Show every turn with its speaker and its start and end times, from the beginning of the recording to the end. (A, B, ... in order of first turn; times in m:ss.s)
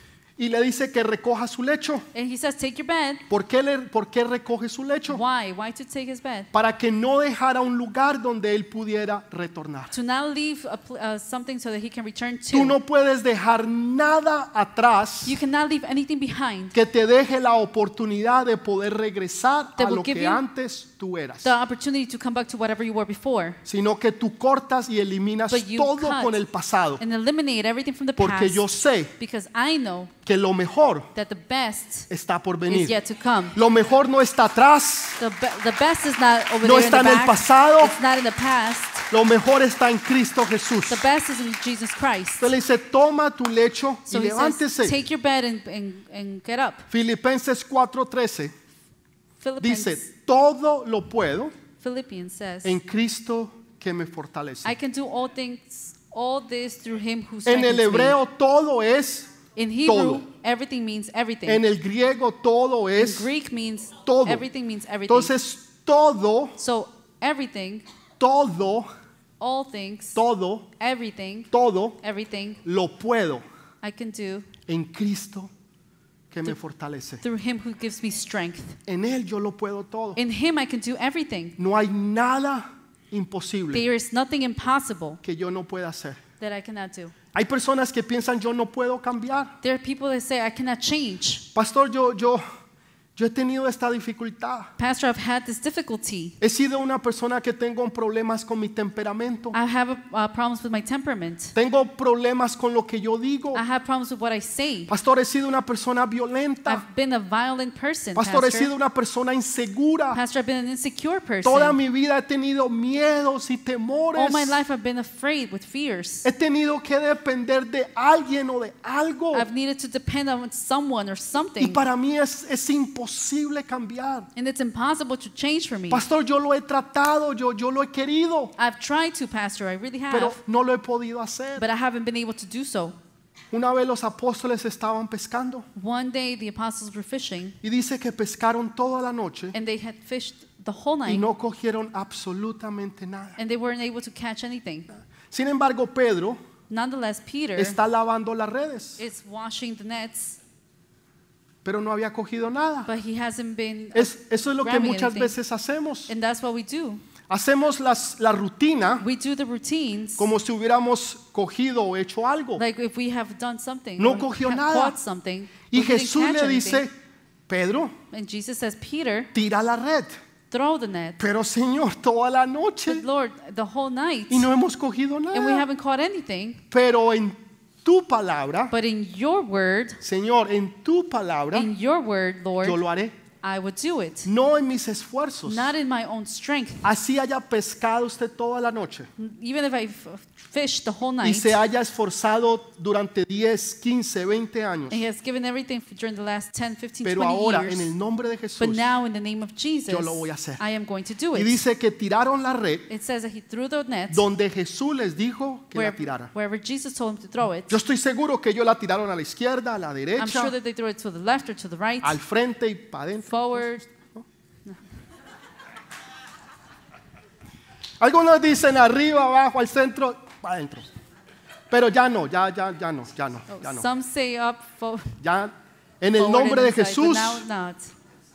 0:00.4-0:02.0 A
0:02.1-0:03.2 B
0:03.3-0:05.2 A
0:05.1-0:06.5 B
0:06.5-0:09.9 A
0:09.9-0:12.8 B
0:12.5-0:15.4 A
0:15.2-0:16.8 B
0:16.7-0:21.5 A
0:19.8-0:20.4 B
0:21.4-0:23.6 B
0:23.6-0:27.0 A
0:25.5-0:26.4 B
0:27.0-0:30.1 B
0:28.2-0:29.1 A
0:30.2-0:31.1 A
0:31.1-0:32.1 B
0:32.1-0:33.0 A
0:32.7-0:33.6 B
0:33.5-0:35.2 A
0:35.2-0:39.1 B
0:36.6-0:38.0 A
0:39.1-0:41.0 A
0:40.9-0:42.5 B
0:42.4-0:45.0 A
0:44.1-0:46.8 B
0:46.9-0:48.5 A
0:49.4-0:50.0 B
0:49.6-0:51.5 A
0:51.8-0:52.8 B
0:52.6-0:54.7 A
0:54.6-0:58.2 B
0:57.4-0:59.3 A
0:59.6-1:01.6 B
0:59.8-1:00.2 A
1:01.5-1:03.3 A
1:03.0-1:05.3 B
1:04.0-1:04.4 A
1:05.1-1:06.6 A
1:06.6-1:07.8 B
1:08.2-1:08.9 A
1:09.4-1:10.2 B
1:10.1-1:10.7 A
1:10.8-1:11.5 B
1:11.5-1:12.0 A
1:12.0-1:12.6 B
1:12.6-1:13.4 A
1:13.8-1:14.5 B
1:14.7-1:15.5 A
1:16.3-1:17.2 A
1:17.2-1:18.8 B
1:18.9-1:20.2 A
1:20.2-1:21.6 B
1:21.6-1:23.8 A
1:23.7-1:25.2 B
1:25.2-1:26.2 A
1:26.4-1:27.1 B
1:27.3-1:29.6 A
1:29.6-1:31.5 B
1:31.5-1:32.4 A
1:33.2-1:34.7 A
1:34.8-1:36.4 B
1:36.4-1:39.6 A
1:39.5-1:41.5 B
1:41.5-1:43.6 A
1:43.5-1:44.9 B
1:44.9-1:46.8 A
1:46.6-1:48.7 B
1:48.1-1:50.2 A
1:50.1-1:51.8 B
1:51.4-1:54.6 A
1:54.1-1:56.2 B
1:56.2-1:59.5 A
1:59.3-2:01.8 B
2:01.6-2:04.3 A
2:04.3-2:06.0 B
2:05.9-2:08.5 A
2:08.6-2:10.4 B
2:10.1-2:11.6 A
2:11.6-2:12.9 B
2:13.5-2:15.6 A
2:15.7-2:17.6 B
2:17.6-2:19.6 A
2:19.5-2:21.3 B
2:21.1-2:23.4 A
2:23.4-2:24.9 B
2:25.3-2:26.4 A
2:26.7-2:27.8 B
2:27.6-2:29.0 A
2:29.0-2:30.4 B
2:31.6-2:32.9 A
2:32.9-2:35.3 B
2:33.9-2:36.1 A
2:36.1-2:37.0 B
2:37.3-2:39.0 A
2:39.0-2:40.3 B
2:40.2-2:42.6 A
2:42.6-2:46.8 B
2:44.0-2:45.0 A
2:45.7-2:46.9 A
2:47.5-2:48.0 A
2:48.1-2:49.3 B
2:49.3-2:50.1 A
2:50.5-2:51.2 B
2:51.2-2:53.0 A
2:52.9-2:54.5 B
2:54.3-2:55.6 A
2:55.3-2:56.6 B
2:56.7-2:58.7 A
2:58.7-3:00.0 B
3:00.0-3:01.7 A
3:01.5-3:02.8 B
3:02.6-3:03.1 A
3:03.4-3:04.3 B
3:04.2-3:05.7 A
3:05.4-3:06.9 B
3:06.8-3:09.1 A
3:09.2-3:11.6 B
3:11.2-3:15.0 A
3:14.9-3:17.9 B
3:17.0-3:18.8 A
3:18.6-3:21.6 B
3:19.9-3:20.6 A
3:21.3-3:22.9 A
3:22.9-3:24.2 B
3:24.1-3:26.3 A
3:25.7-3:27.8 B
3:27.7-3:30.5 A
3:30.2-3:32.2 B
3:32.0-3:34.2 A
3:33.3-3:33.8 B
3:38.0-3:40.8 A
3:41.7-3:43.9 A
3:43.5-3:45.1 B
3:45.2-3:47.4 A
3:46.2-3:47.9 B